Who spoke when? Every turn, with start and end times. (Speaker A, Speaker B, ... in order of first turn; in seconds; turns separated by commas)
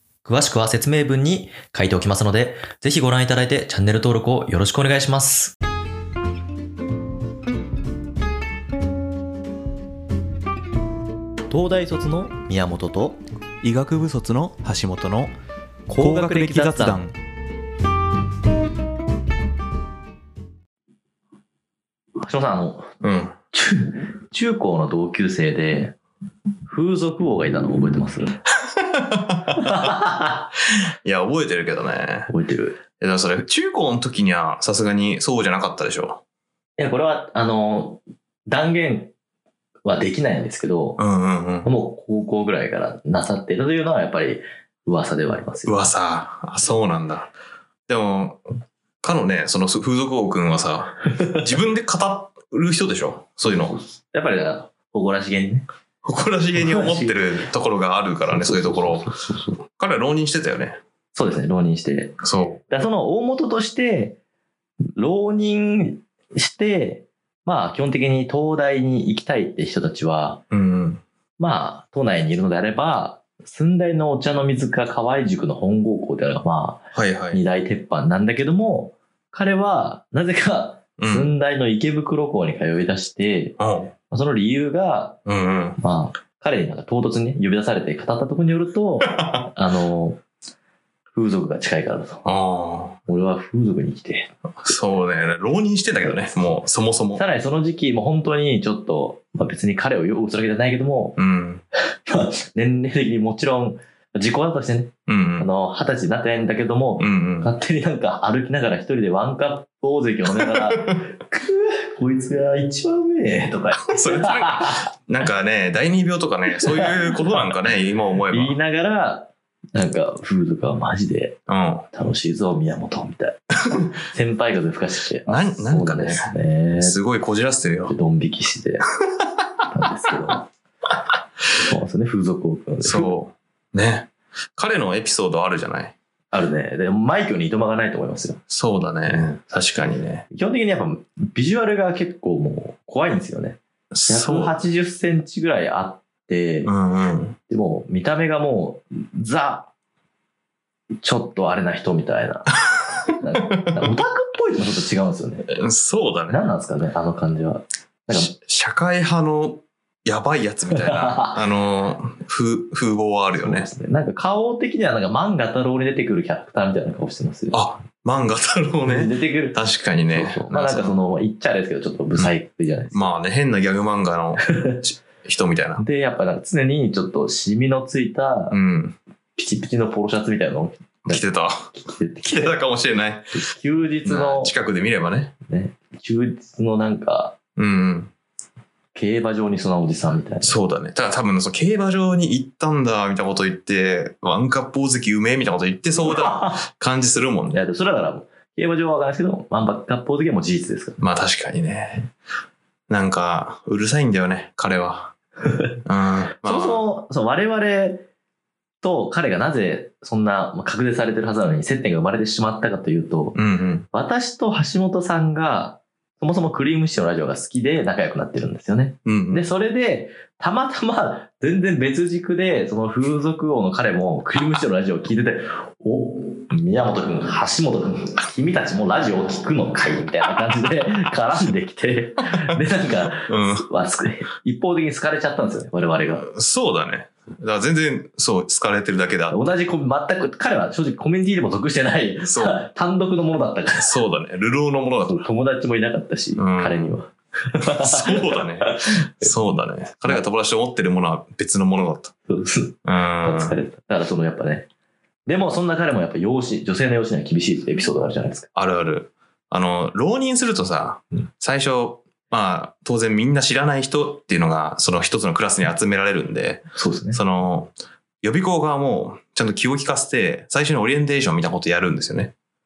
Speaker A: 0.2-5.5, Speaker A: 11.5-13.2, Speaker B: 13.6-15.3, Speaker A: 15.9-17.1, Speaker B: 16.0-17.1, Speaker A: 22.2-22.9, Speaker B: 23.0-23.3, Speaker A: 23.5-25.9, Speaker A: 26.7-28.4, Speaker B: 28.7-29.9, Speaker A: 29.5-30.4, Speaker B: 31.0-32.3, Speaker A: 32.3-32.8, Speaker B: 33.0-36.2, Speaker A: 36.8-39.1, Speaker A: 39.8-41.0, Speaker B: 41.0-41.7, Speaker A: 41.6-45.9, Speaker B: 45.6-47.3, Speaker B: 47.9-48.4, Speaker B: 49.0-53.8, Speaker A: 53.4-55.6, Speaker B: 56.0-59.1, Speaker A: 56.5-57.4, Speaker A: 58.3-59.6, Speaker B: 59.7-60.8, Speaker A: 61.1-64.2, Speaker B: 62.2-62.6, Speaker A: 65.0-70.4, Speaker B: 70.5-71.0, Speaker A: 71.4-83.6, Speaker B: 76.9-77.4, Speaker B: 81.0-81.3, Speaker B: 83.6-83.9, Speaker A: 84.1-85.2, Speaker B: 85.2-85.8, Speaker A: 85.8-90.2, Speaker B: 89.0-89.5, Speaker A: 91.1-92.3, Speaker B: 92.2-93.0, Speaker A: 93.1-94.3, Speaker B: 94.6-97.2, Speaker A: 97.2-101.2, Speaker B: 101.2-101.6, Speaker A: 102.0-114.9, Speaker B: 105.1-105.5, Speaker B: 107.0-107.5, Speaker B: 110.3-111.0, Speaker B: 113.8-118.6, Speaker A: 116.5-117.1, Speaker A: 118.3-121.4, Speaker B: 121.5-121.8, Speaker A: 121.9-127.0, Speaker B: 125.3-127.9, Speaker A: 127.8-128.9, Speaker A: 129.7-130.5, Speaker A: 131.6-133.1, Speaker B: 132.8-135.9, Speaker A: 136.3-138.4, Speaker B: 138.5-140.2, Speaker A: 140.3-146.7, Speaker B: 143.9-144.5, Speaker B: 146.6-147.4, Speaker A: 147.5-149.7, Speaker A: 151.0-152.5, Speaker A: 153.1-155.5, Speaker B: 153.3-154.0, Speaker B: 155.5-156.4, Speaker A: 156.3-158.3, Speaker B: 158.1-163.7, Speaker A: 160.7-161.3, Speaker A: 163.4-167.6, Speaker B: 167.5-170.9, Speaker A: 168.8-169.6, Speaker A: 170.1-173.1, Speaker B: 172.9-175.8, Speaker A: 175.8-178.6, Speaker B: 178.5-179.0, Speaker A: 179.3-182.6, Speaker B: 181.1-183.3, Speaker A: 183.3-184.5, Speaker B: 184.0-185.3, Speaker A: 185.4-187.4, Speaker B: 187.6-188.1, Speaker A: 188.9-190.5, Speaker B: 190.4-197.6, Speaker A: 196.0-196.6, Speaker A: 197.5-201.0, Speaker B: 201.0-202.1, Speaker B: 202.9-205.1, Speaker B: 205.8-206.8, Speaker A: 206.4-208.0, Speaker A: 208.8-213.4, Speaker B: 213.3-213.8, Speaker A: 213.9-236.3, Speaker B: 219.1-219.5, Speaker B: 233.3-233.7, Speaker B: 236.0-239.4, Speaker A: 239.3-244.0, Speaker B: 242.2-242.6, Speaker B: 243.8-245.2, Speaker A: 245.1-249.3, Speaker B: 246.4-246.9, Speaker B: 247.8-252.1, Speaker A: 252.3-254.7, Speaker B: 252.8-253.5, Speaker A: 255.3-258.5, Speaker B: 258.5-272.3, Speaker A: 266.8-267.2